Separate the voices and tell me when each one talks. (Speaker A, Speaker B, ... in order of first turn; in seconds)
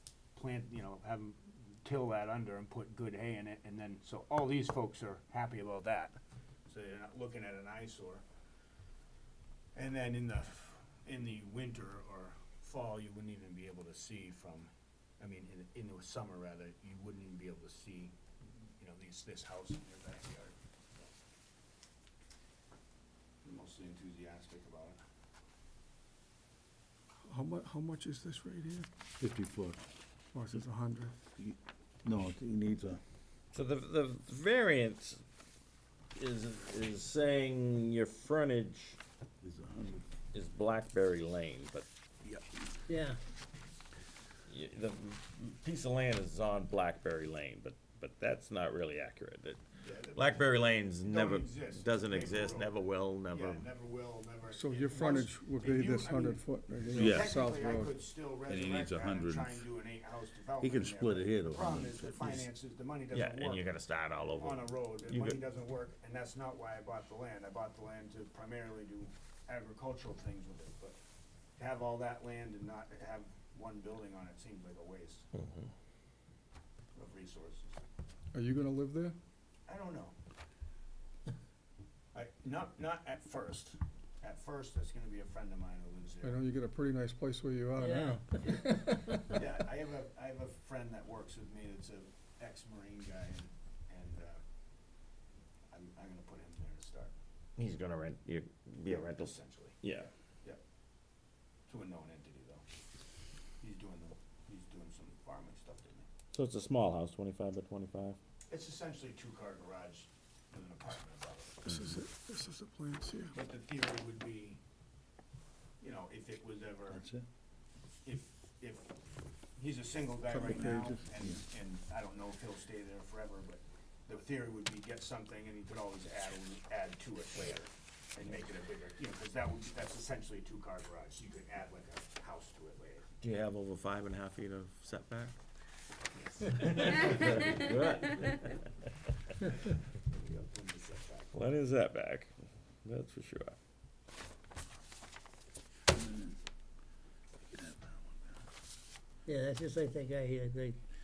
Speaker A: 0.3-8.2, 9.7-18.1, 18.8-21.1, 23.4-25.0, 49.8-63.6, 64.3-71.0, 71.6-75.2, 76.9-77.8, 79.7-80.1, 82.1-86.4, 89.3-94.4, 95.7-97.1, 98.8-99.8, 101.7-102.6, 103.6-106.0, 108.5-111.6, 113.3-114.6, 115.8-117.0, 118.0-119.0, 119.6-133.1, 136.5-137.7, 140.1-141.4
Speaker B: 27.3-28.9, 30.3-31.1, 54.5-57.9, 78.3-79.2, 86.2-89.2, 111.7-113.3, 120.3-121.0
Speaker C: 29.2-29.8, 31.4-33.0, 39.4-40.0, 42.2-42.6, 56.9-57.3, 58.5-59.6, 60.6-62.4, 111.7-112.0, 116.9-117.2, 145.9-146.3, 147.5-148.1
Speaker D: 33.5-35.2, 36.1-39.0, 40.3-41.9, 44.5-49.6, 50.1-53.6, 63.1-65.4, 75.3-75.7, 97.6-99.3, 99.8-100.1, 106.3-108.2, 133.2-135.3, 136.6-138.6, 141.3-142.3, 142.8-143.6
Speaker E: 42.9-43.2, 87.8-88.4, 149.2-150.8